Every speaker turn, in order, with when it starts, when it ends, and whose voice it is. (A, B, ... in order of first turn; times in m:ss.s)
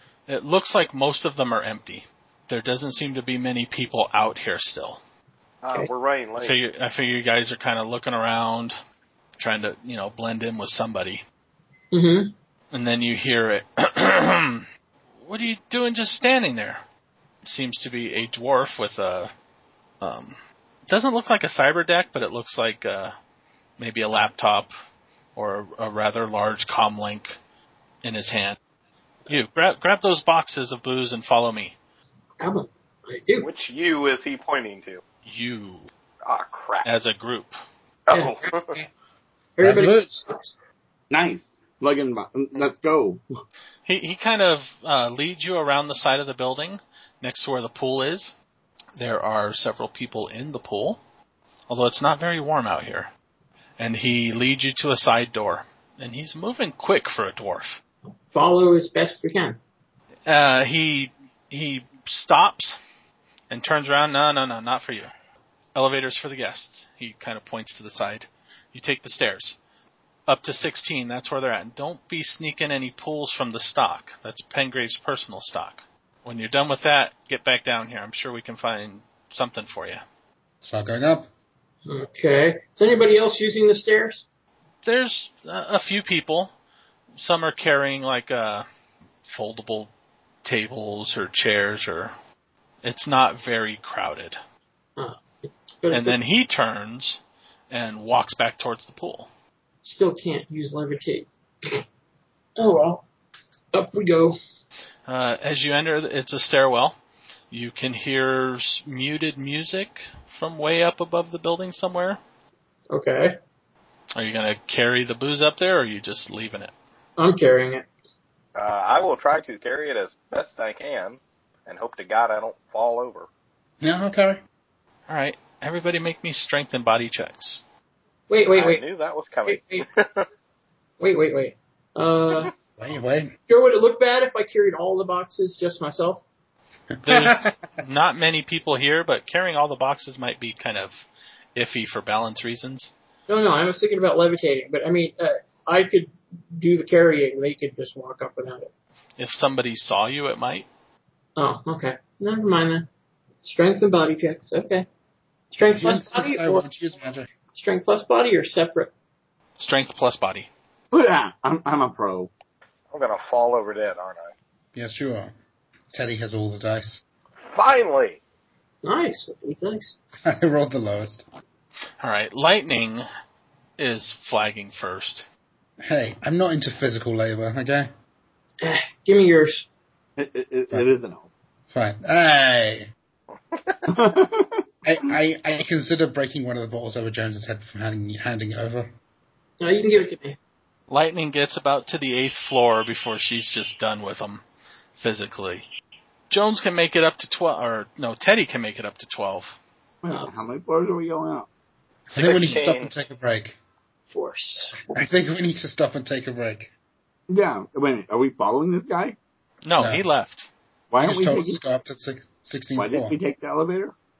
0:00.3-0:05.0 A
0:05.6-0:06.6 B
0:06.4-0:08.8 A
0:09.4-0:11.2 A
0:11.9-0:12.3 C
0:12.7-0:14.7 A
0:15.2-0:16.8 A
0:17.4-0:19.3 A
0:20.0-0:23.1 A
0:23.8-0:24.7 A
0:25.4-0:27.4 A
0:28.0-0:28.6 A
0:29.3-0:31.8 A
0:32.4-0:33.5 C
0:33.4-0:35.0 B
0:35.2-0:35.9 A
0:36.3-0:36.9 B
0:36.8-0:37.6 A
0:38.1-0:38.8 B
0:38.1-0:38.4 C
0:39.6-0:40.5 C
0:39.6-0:40.2 D
0:41.1-0:43.2 E
0:43.9-0:48.3 A
0:49.0-0:51.0 A
0:51.7-0:53.1 A
0:53.8-0:57.8 A
0:58.3-0:59.6 C
1:00.3-1:02.8 A
1:03.5-1:05.1 A
1:05.8-1:09.6 A
1:10.3-1:20.0 A
1:20.6-1:21.3 D
1:21.9-1:24.2 C
1:24.8-1:26.5 A
1:27.2-1:28.7 A
1:29.3-1:29.9 A
1:30.4-1:32.1 A
1:32.8-1:34.4 A
1:35.0-1:36.2 C
1:35.9-1:39.3 A
1:39.8-1:41.8 C
1:42.6-1:43.0 C
1:43.7-1:44.4 C
1:45.1-1:47.0 A
1:47.5-1:52.2 A
1:52.9-1:53.4 C
1:54.2-1:56.7 A
1:57.2-1:57.9 C
1:58.6-2:03.3 B
2:03.8-2:04.4 D
2:05.1-2:07.6 A
2:08.3-2:08.8 C
2:08.5-2:10.3 B
2:09.5-2:09.9 C
2:11.0-2:12.5 C
2:12.8-2:13.3 D
2:13.5-2:16.2 C
2:17.0-2:17.6 D
2:17.0-2:22.9 A
2:23.3-2:28.7 C
2:29.2-2:30.7 A
2:31.4-2:32.9 C
2:33.4-2:34.9 C
2:35.5-2:36.6 C
2:35.6-2:37.3 D
2:37.5-2:38.9 C
2:39.6-2:40.5 A
2:40.9-2:42.3 E
2:42.9-2:44.3 B
2:44.8-2:45.3 D
2:45.9-2:47.0 D
2:47.6-2:48.2 B
2:48.8-2:50.0 C
2:50.3-2:51.2 D
2:52.0-2:53.1 A
2:53.8-2:55.3 A
2:55.8-2:57.9 D
2:58.6-2:59.7 C
3:00.2-3:01.3 E
3:01.7-3:02.9 D
3:03.9-3:05.1 E
3:04.8-3:08.9 D
3:09.6-3:10.4 C
3:10.9-3:14.4 A
3:15.0-3:15.7 A
3:16.3-3:19.6 A
3:20.0-3:21.5 E
3:20.1-3:20.4 C
3:22.1-3:23.6 D
3:22.1-3:22.9 B
3:24.1-3:24.8 C
3:24.9-3:26.7 D
3:27.3-3:29.2 E
3:29.6-3:30.5 A
3:29.8-3:30.0 D
3:30.9-3:31.6 E
3:31.0-3:33.2 D
3:32.8-3:33.9 E